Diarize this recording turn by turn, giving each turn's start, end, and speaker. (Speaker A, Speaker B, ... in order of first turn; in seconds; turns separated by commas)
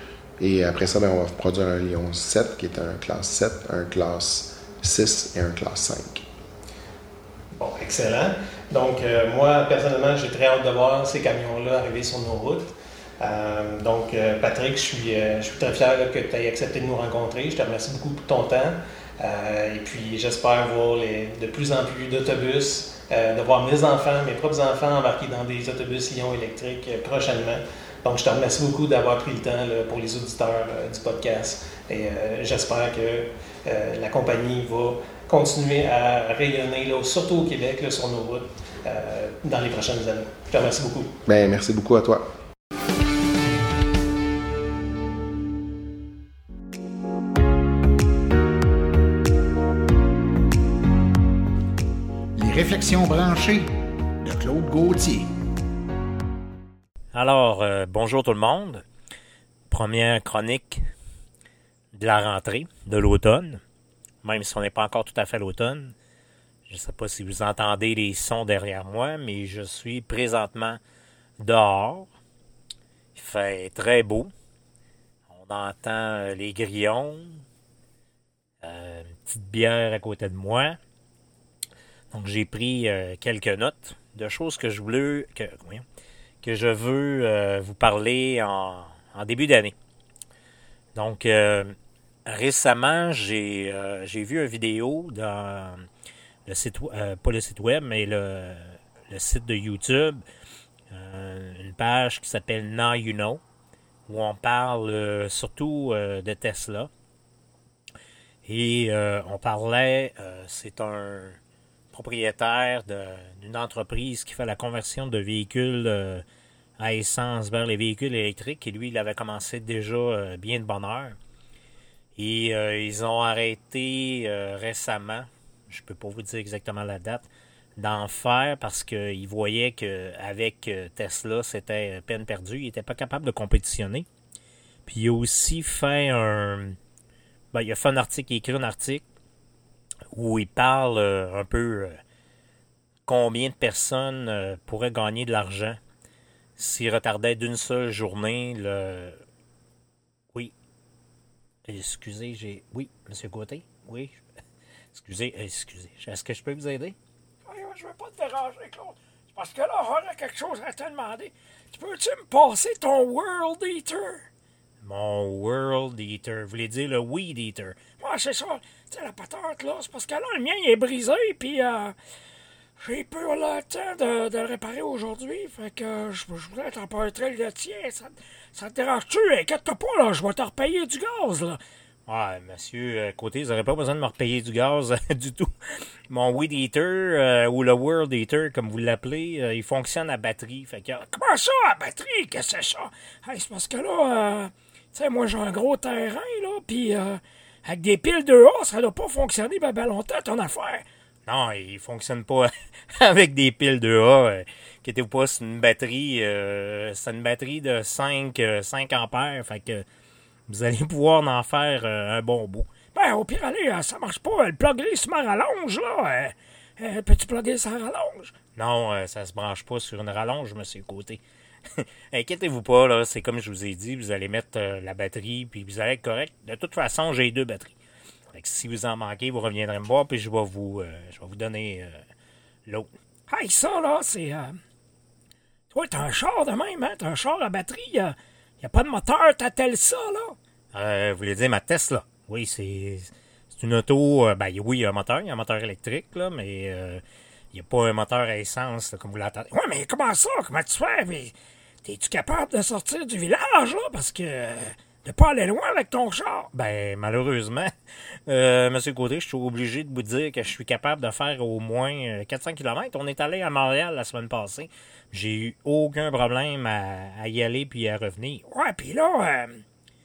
Speaker A: 0.4-6.2, Speaker B: 7.6-41.1, Speaker A: 41.2-42.3, Speaker C: 52.4-53.7, Speaker C: 54.2-55.3, Speaker D: 57.1-58.8, Speaker D: 59.7-60.8, Speaker D: 61.9-63.6, Speaker D: 64.2-65.9, Speaker D: 66.7-70.8, Speaker D: 71.4-72.1, Speaker D: 73.1-74.3, Speaker D: 75.3-77.4, Speaker D: 78.6-80.8, Speaker D: 82.1-85.8, Speaker D: 86.4-89.7, Speaker D: 90.9-91.7, Speaker D: 92.3-95.8, Speaker D: 96.5-100.2, Speaker D: 100.9-103.4, Speaker D: 104.1-106.9, Speaker D: 108.4-111.4, Speaker D: 111.9-116.2, Speaker D: 116.8-121.2, Speaker D: 122.2-134.1, Speaker D: 134.9-136.8, Speaker D: 137.5-139.1, Speaker D: 140.1-142.0, Speaker D: 143.1-145.8, Speaker D: 146.6-149.2, Speaker D: 151.6-154.2, Speaker D: 154.9-157.0, Speaker E: 157.4-164.2, Speaker D: 164.8-168.0, Speaker E: 167.9-171.9, Speaker E: 172.8-181.6, Speaker D: 182.1-185.5, Speaker D: 186.1-191.1, Speaker E: 191.1-200.8, Speaker D: 201.2-209.8, Speaker D: 210.5-212.9, Speaker E: 212.8-218.5, Speaker D: 218.5-221.2, Speaker D: 221.7-227.7, Speaker D: 228.3-232.0, Speaker D: 232.7-232.9, Speaker E: 233.3-234.6, Speaker E: 235.7-240.4, Speaker D: 240.7-249.5, Speaker E: 249.5-256.5, Speaker D: 256.5-257.7, Speaker D: 258.3-268.4, Speaker E: 268.5-269.6